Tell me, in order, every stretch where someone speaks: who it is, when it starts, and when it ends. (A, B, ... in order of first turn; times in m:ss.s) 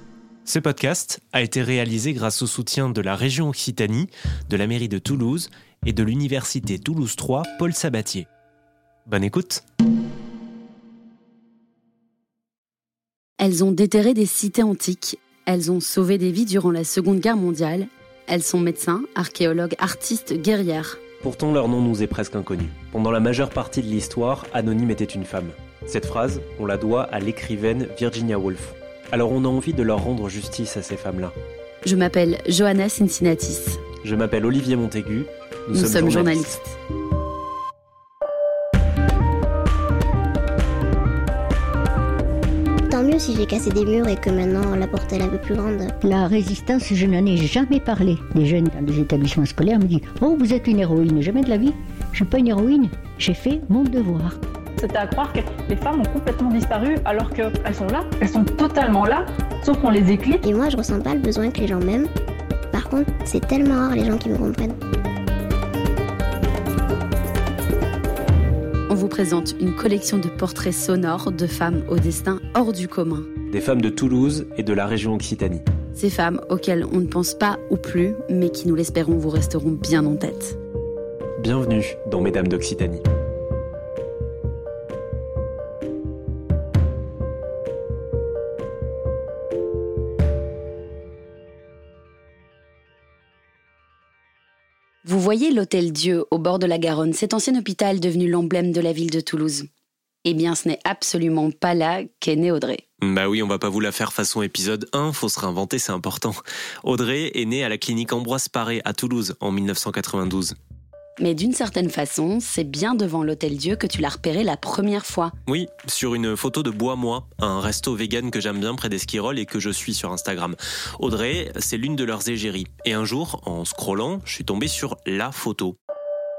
0:00.4-0:08.3 A
0:09.0-0:09.6 A
0:13.4-0:21.0 B
0:21.2-0:31.3 A
0:31.8-0:33.8 B
0:34.0-0:36.6 A
0:35.7-0:36.8 B
0:42.9-0:45.9 C
0:46.0-0:54.4 D
0:54.8-1:00.4 E
1:00.4-1:02.1 C
1:02.7-1:04.8 C
1:08.9-1:13.3 B
1:13.5-1:15.6 A
1:15.9-1:20.6 B
1:21.4-1:23.0 A
1:35.0-1:39.7 B
1:40.2-1:42.8 B
1:43.0-1:50.5 A
1:51.2-1:55.3 B
1:55.4-2:05.8 A